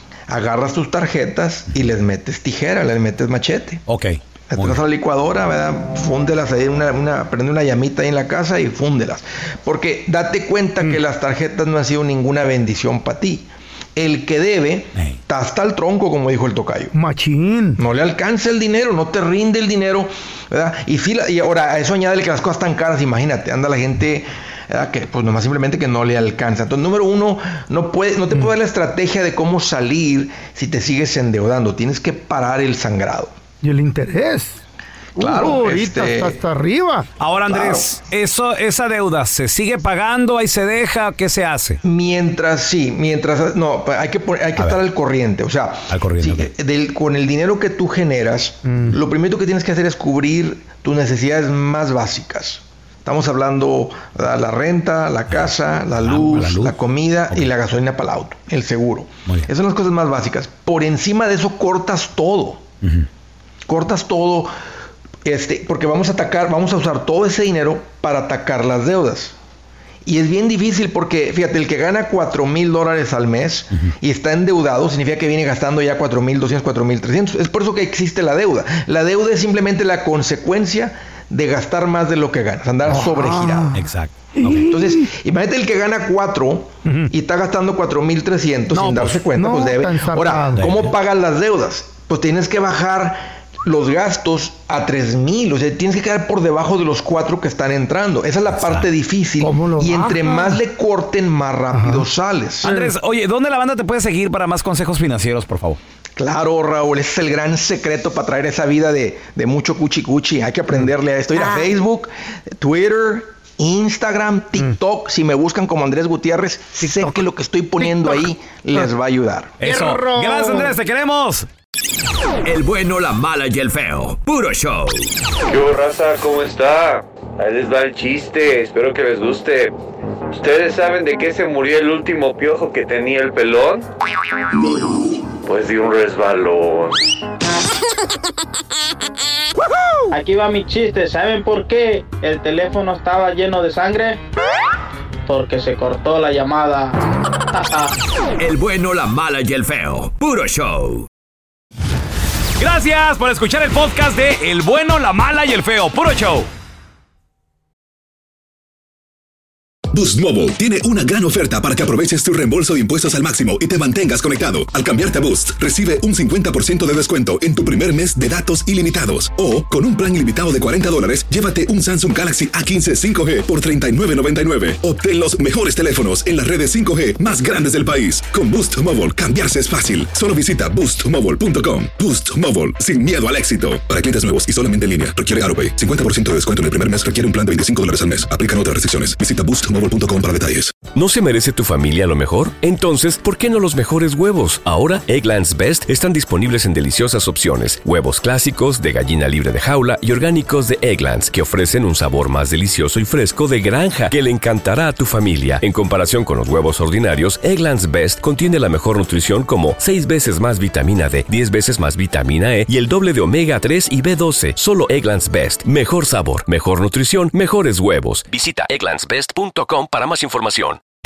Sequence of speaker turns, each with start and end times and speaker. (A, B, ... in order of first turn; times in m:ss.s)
0:00.3-0:03.8 A
0:03.9-0:04.8 B
0:04.5-0:16.9 A
0:16.9-0:17.8 C
0:17.8-0:33.4 A
0:33.6-0:34.6 C
0:35.2-0:36.4 A
0:35.2-0:37.1 C
0:37.2-0:41.8 B
0:37.5-0:37.9 A
0:41.8-1:02.6 A
0:45.9-0:46.5 B
0:48.7-0:49.0 C
0:56.0-0:56.8 B
1:02.8-1:03.1 B
1:03.7-1:04.5 A
1:05.2-1:09.4 A
1:10.0-1:23.8 A
1:22.8-1:23.8 C
1:23.7-1:24.7 B
1:24.4-1:25.1 C
1:24.6-1:42.7 A
1:26.8-1:27.1 C
1:28.7-1:29.2 B
1:29.3-1:30.7 C
1:30.6-1:30.9 B
1:38.5-1:38.9 B
1:39.4-1:40.6 C
1:41.7-1:42.1 C
1:42.6-1:45.8 B
1:46.2-1:59.6 A
1:56.8-1:58.9 C
1:59.6-2:01.5 B
1:59.6-2:00.8 C
2:02.4-2:05.1 D
2:05.5-2:09.8 E
2:10.4-2:13.8 E
2:15.4-2:17.0 E
2:20.1-2:24.2 F
2:25.3-2:27.0 F
2:27.5-2:27.9 F
2:28.4-2:31.1 D
2:32.6-2:36.5 B
2:39.9-3:10.8 G
3:10.9-3:40.8 H